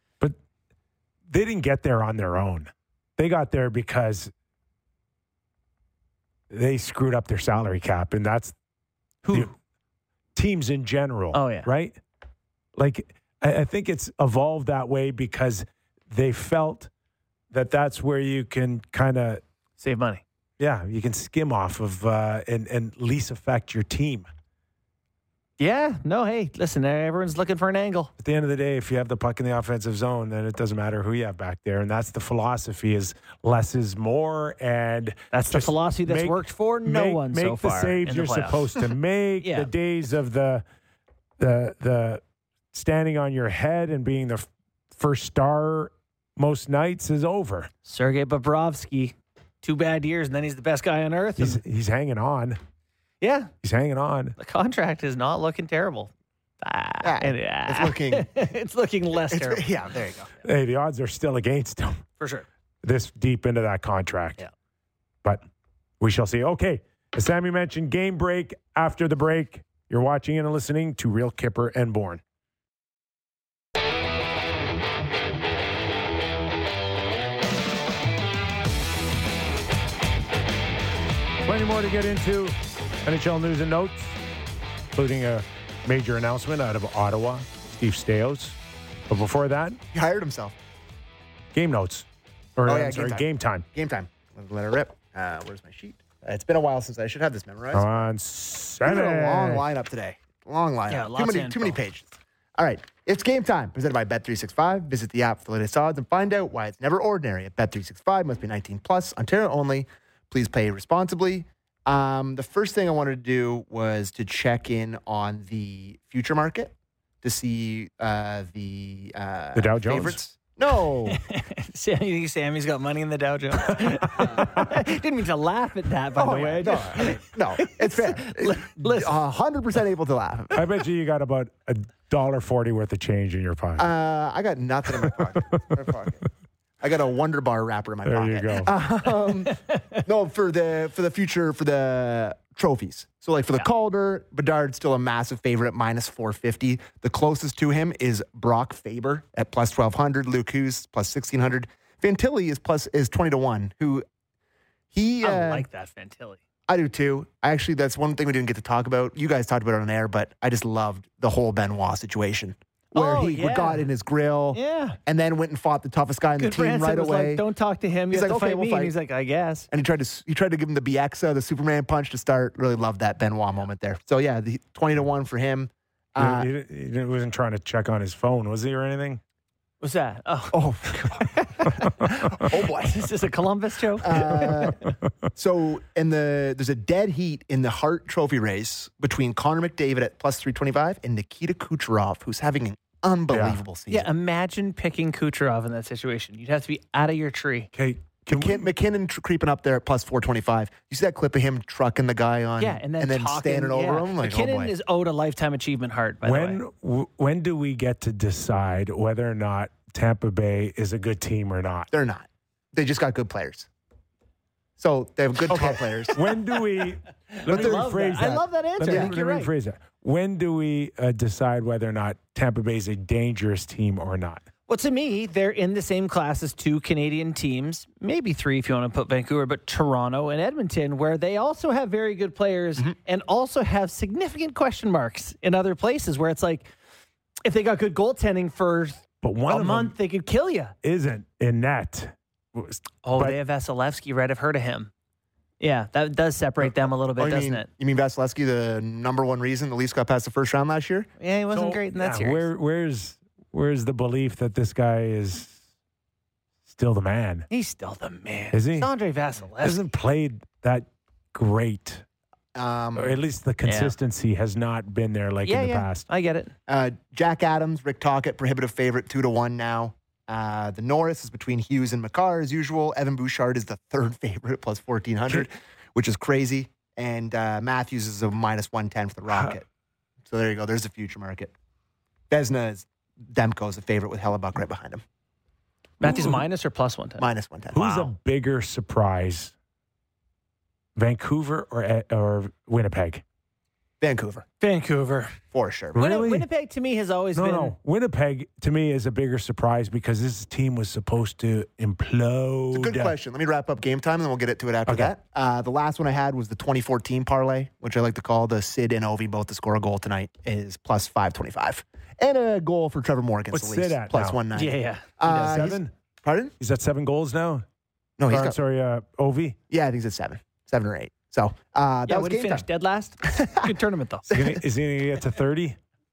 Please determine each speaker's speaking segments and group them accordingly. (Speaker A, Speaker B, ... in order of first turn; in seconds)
Speaker A: 1.3-4.3, 6.5-8.6, 9.2-9.5, 10.3-12.0, 12.8-16.9, 17.5-19.4, 20.6-24.3, 28.2-40.6, 41.4-47.7, 51.4-52.6, 53.6-54.4, 60.4-62.0, 62.8-64.4, 66.0-72.2, 81.4-84.2, 84.9-88.6, 89.1-89.8, 91.5-93.7, 97.7-99.7, 119.5-120.2, 123.7-124.7, 130.5-133.9, 135.0-135.8, 138.1-138.7, 176.2-179.2, 193.3-193.6, 197.7-198.7, 206.2-211.9, 215.5-224.4, 239.2-239.9, 240.8-243.4, 251.5-255.6, 256.7-257.5, 258.5-258.9, 259.6-262.1, 262.9-266.1, 279.3-279.6, 286.0-286.4, 287.7-289.5, 291.0-293.2, 295.9-296.5, 297.4-303.2, 304.9-305.1, 313.5-314.4, 315.2-315.9, 316.6-317.6, 318.3-319.6, 324.3-325.8
Speaker B: 9.3-9.5, 11.3-11.7, 19.8-20.2, 25.6-28.1, 35.3-39.7, 47.9-51.6, 53.2-53.5, 54.4-59.7, 62.2-62.5, 100.9-101.8, 121.1-129.2, 139.5-140.0, 155.2-156.4, 162.9-163.9, 164.5-165.0, 166.4-169.7, 179.8-180.6, 181.1-184.9, 193.9-197.7, 202.6-206.6, 217.3-219.5, 224.7-236.7, 237.4-240.8, 243.0-244.9, 245.6-247.7, 251.2-252.5, 257.5-259.9, 263.6-263.9, 265.4-266.5, 286.0-287.3, 294.6-295.4, 295.9-297.7, 314.5-315.1, 322.1-324.3
Speaker C: 57.0-58.3, 59.3-60.3, 89.9-90.6, 92.7-98.1, 98.8-102.1, 102.6-121.2, 126.2-130.6, 133.8-136.3, 136.8-154.1, 154.9-155.7, 156.7-167.4, 168.1-168.9, 169.7-176.5, 180.5-183.1, 184.0-194.1, 198.3-204.7, 211.9-213.7, 214.8-216.2, 217.4-219.2, 247.2-251.1, 262.6-263.2, 266.7-279.7, 280.3-281.5, 282.3-285.0, 287.2-288.1, 294.0-294.4, 295.5-296.0, 302.7-316.5, 318.2-318.6, 319.7-322.6, 323.3-323.7, 324.3-324.6